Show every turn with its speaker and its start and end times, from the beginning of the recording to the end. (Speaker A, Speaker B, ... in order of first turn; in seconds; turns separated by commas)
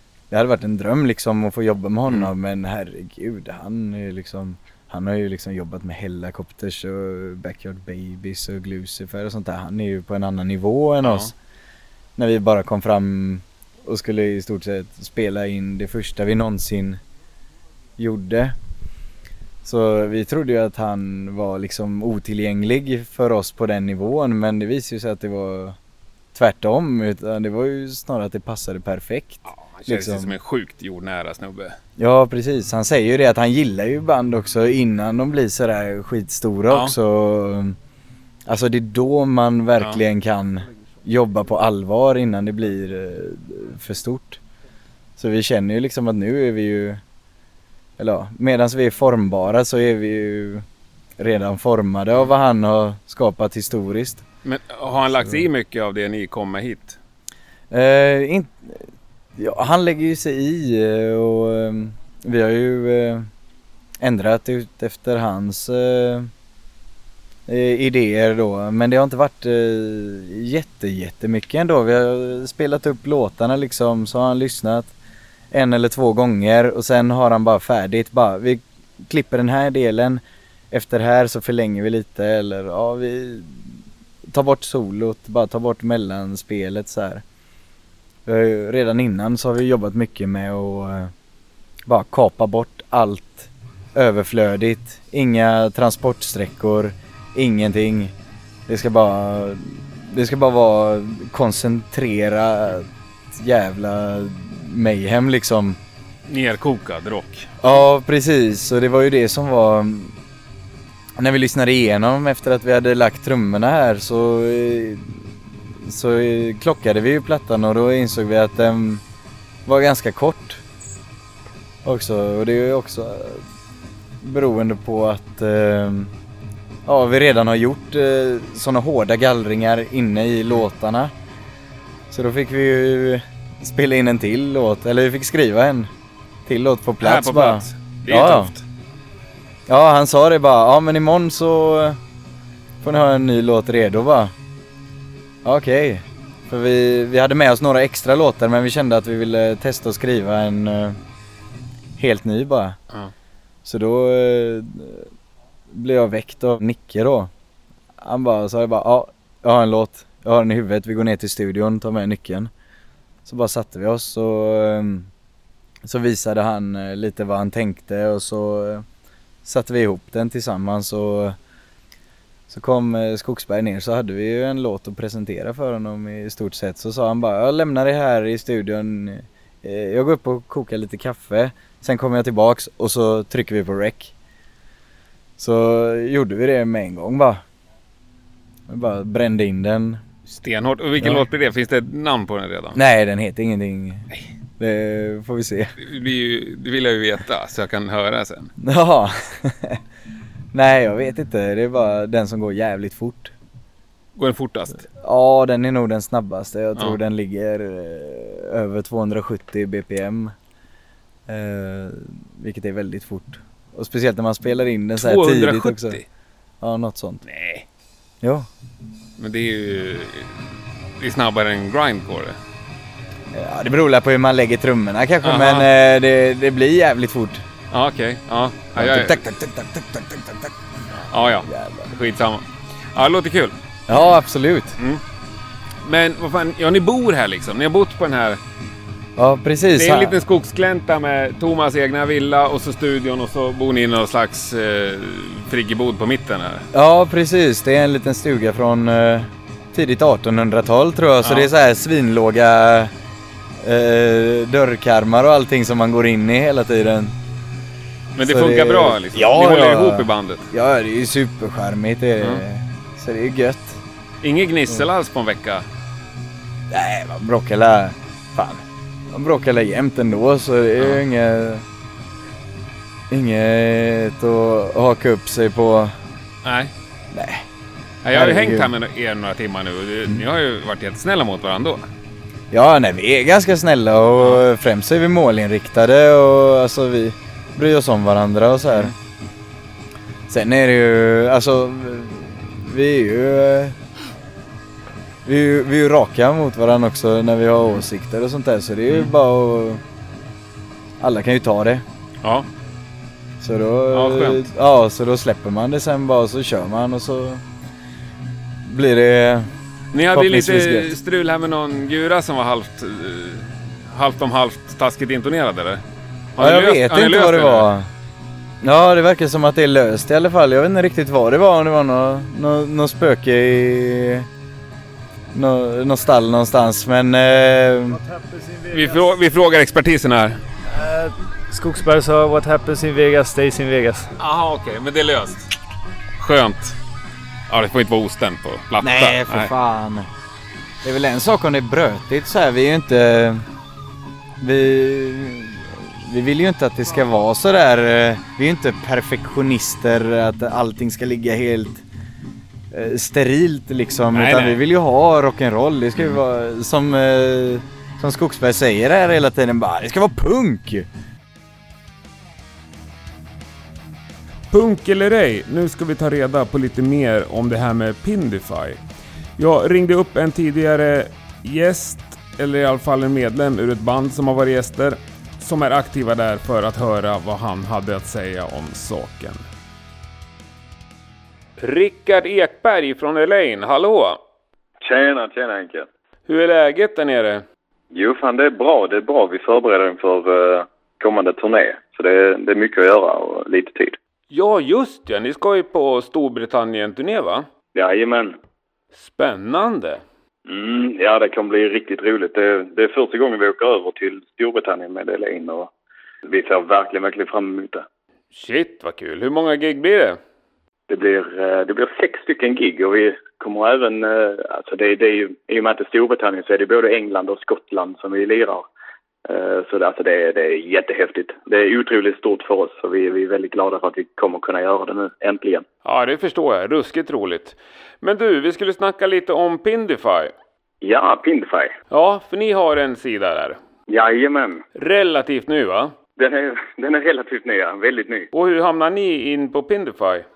Speaker A: 0.3-11.3, Speaker B: 11.0-11.3, Speaker A: 12.2-17.0, Speaker A: 18.0-18.5, Speaker A: 19.6-25.8, Speaker A: 26.3-30.3, Speaker B: 29.4-31.8, Speaker A: 32.0-37.8, Speaker B: 36.7-36.9, Speaker A: 38.5-44.4, Speaker A: 45.2-47.0, Speaker A: 48.0-50.6, Speaker A: 51.2-54.2, Speaker B: 54.4-57.0, Speaker A: 57.7-58.9, Speaker A: 59.4-63.3, Speaker A: 64.0-66.3, Speaker A: 67.5-74.9, Speaker A: 75.5-80.2, Speaker A: 80.7-83.7, Speaker A: 84.3-87.2, Speaker A: 88.2-91.1, Speaker A: 91.9-98.1, Speaker A: 98.7-105.8, Speaker B: 106.3-107.5, Speaker A: 107.6-110.1, Speaker A: 111.2-115.2, Speaker A: 115.8-119.0, Speaker A: 119.7-120.6, Speaker A: 121.8-123.4, Speaker A: 124.2-126.1, Speaker A: 126.8-131.1, Speaker A: 132.1-135.9, Speaker A: 136.4-138.5, Speaker B: 137.0-138.6, Speaker A: 139.7-142.0, Speaker A: 142.8-144.3, Speaker A: 145.4-151.0, Speaker A: 152.0-152.8, Speaker A: 153.6-155.1, Speaker A: 155.7-157.3, Speaker A: 158.0-162.5, Speaker A: 163.2-165.1, Speaker A: 165.8-168.8, Speaker A: 169.4-171.3, Speaker A: 172.5-184.1, Speaker A: 185.4-187.4, Speaker A: 188.7-190.0, Speaker B: 190.3-192.8, Speaker A: 191.0-191.2, Speaker A: 192.7-194.1, Speaker A: 194.6-195.7, Speaker B: 195.8-198.5, Speaker A: 198.6-199.8, Speaker A: 200.5-203.3, Speaker B: 204.2-204.8, Speaker A: 205.0-210.3, Speaker A: 211.3-216.0, Speaker B: 215.0-216.0, Speaker A: 216.6-217.2, Speaker B: 217.2-217.7, Speaker A: 218.2-218.5, Speaker B: 219.2-220.3, Speaker B: 221.0-222.4, Speaker A: 223.3-227.4, Speaker B: 225.2-225.7, Speaker B: 227.7-229.2, Speaker A: 228.8-230.5, Speaker B: 231.1-233.5, Speaker A: 231.4-231.9, Speaker A: 233.9-234.8, Speaker B: 235.8-238.4, Speaker A: 239.2-240.1, Speaker B: 239.8-246.7, Speaker A: 246.7-252.9, Speaker B: 251.2-251.5, Speaker A: 253.6-257.1, Speaker B: 258.1-260.5, Speaker A: 258.2-263.8, Speaker B: 262.2-262.4, Speaker B: 264.2-265.6, Speaker A: 266.7-271.6, Speaker A: 273.1-275.9, Speaker B: 276.4-276.7, Speaker A: 277.1-277.4, Speaker B: 278.0-281.8, Speaker A: 278.1-278.7, Speaker A: 282.5-288.9, Speaker A: 290.3-293.8, Speaker A: 295.2-299.8, Speaker A: 301.0-301.8, Speaker A: 303.4-307.4, Speaker B: 303.9-304.5, Speaker A: 308.6-309.5, Speaker B: 309.9-315.8, Speaker A: 310.1-310.9, Speaker B: 316.4-317.7, Speaker A: 316.4-317.9, Speaker A: 318.6-324.3, Speaker A: 325.3-328.0, Speaker C: 327.9-329.1, Speaker B: 328.7-330.4, Speaker C: 330.7-334.1, Speaker B: 334.2-335.5, Speaker B: 336.2-336.8, Speaker B: 337.5-339.5, Speaker A: 338.8-340.1, Speaker A: 340.8-343.4, Speaker A: 344.4-351.8, Speaker A: 352.7-360.9, Speaker B: 354.1-354.6, Speaker B: 364.5-368.8, Speaker B: 369.4-379.4, Speaker B: 381.6-384.2, Speaker D: 384.8-385.9, Speaker B: 386.3-387.4, Speaker D: 387.9-394.0, Speaker B: 394.3-397.5, Speaker D: 397.7-398.4, Speaker B: 398.9-400.0, Speaker D: 400.4-405.7, Speaker D: 406.2-407.9, Speaker B: 408.3-410.2, Speaker D: 410.9-418.7, Speaker D: 419.2-425.6, Speaker B: 425.8-430.3, Speaker D: 430.8-431.7, Speaker B: 431.9-433.6, Speaker D: 433.9-434.6, Speaker B: 434.7-435.9, Speaker D: 436.2-438.3, Speaker B: 438.3-440.2